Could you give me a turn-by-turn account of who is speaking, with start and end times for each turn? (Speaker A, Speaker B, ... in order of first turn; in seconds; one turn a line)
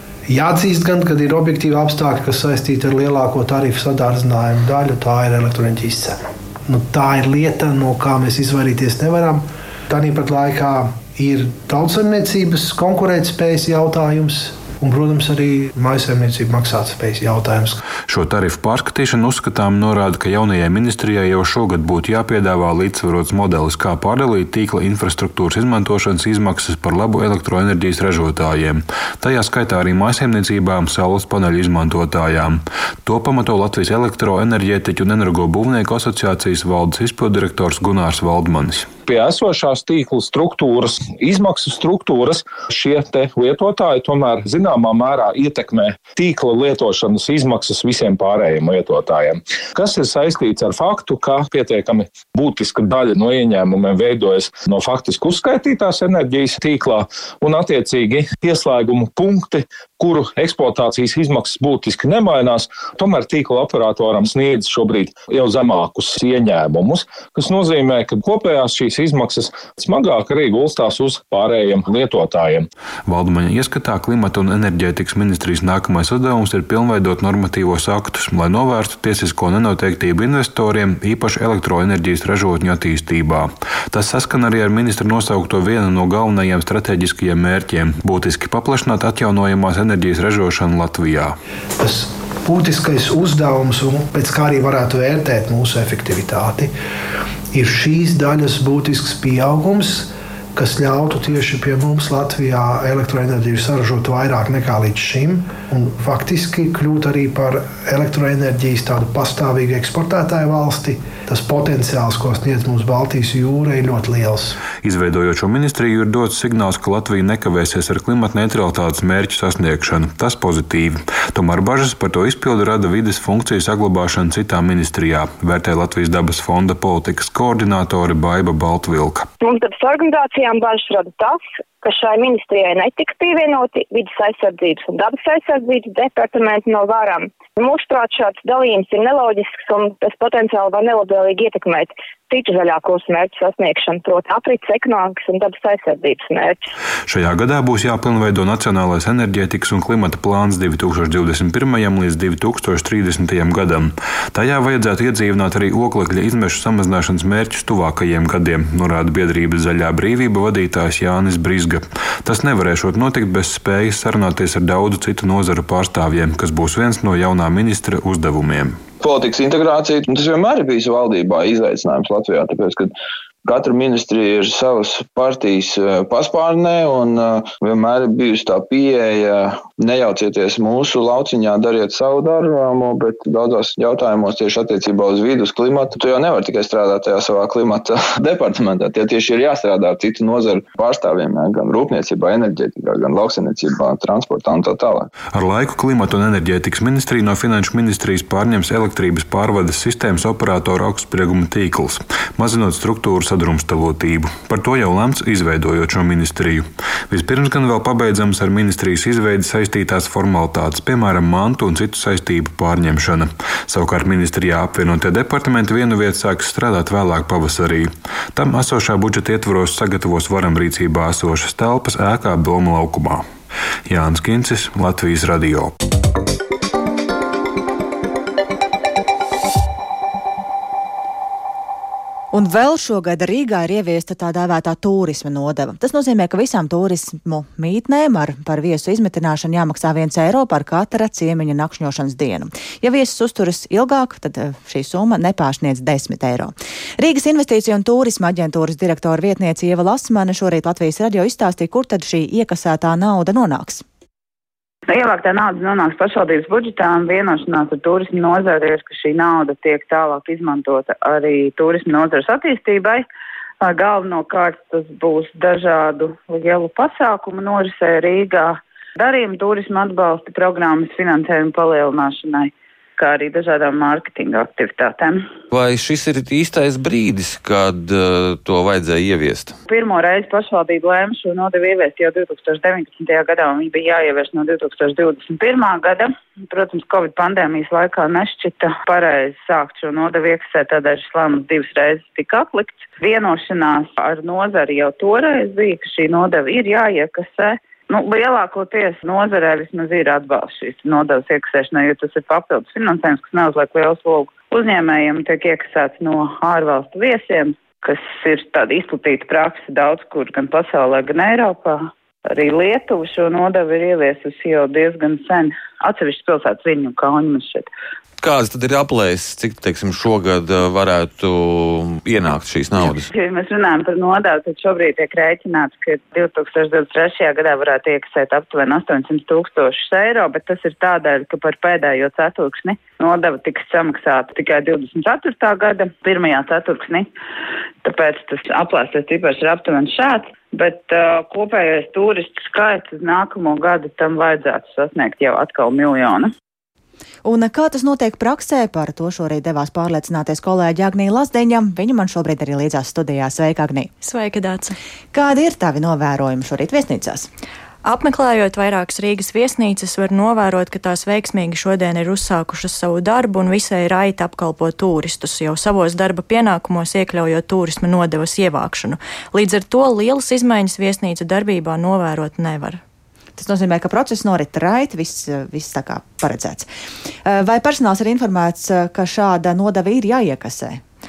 Speaker A: 0.3-17.8
Speaker B: 18.0-38.9
Speaker C: 39.1-72.7
Speaker B: 73.1-91.4
Speaker A: 91.8-96.7
Speaker A: 97.5-114.6
Speaker B: 114.8-129.3
Speaker D: 129.4-146.7
Speaker B: 147.1-168.8
Speaker E: 169.0-172.9
Speaker E: 173.4-195.1
Speaker B: 195.3-223.3
Speaker B: 223.9-225.7
Speaker F: 232.3-253.8
Speaker G: 254.9-263.1
Speaker G: 263.6-275.3
Speaker H: 275.5-279.6
Speaker G: 279.7-317.7
Speaker H: 318.2-323.1
Speaker G: 323.1-337.1
Speaker G: 337.8-346.3
Speaker F: 347.2-353.9
Speaker I: 354.0-354.8
Speaker F: 355.1-357.3
Speaker I: 357.9-372.8
Speaker F: 373.4-376.7
Speaker F: 377.2-380.8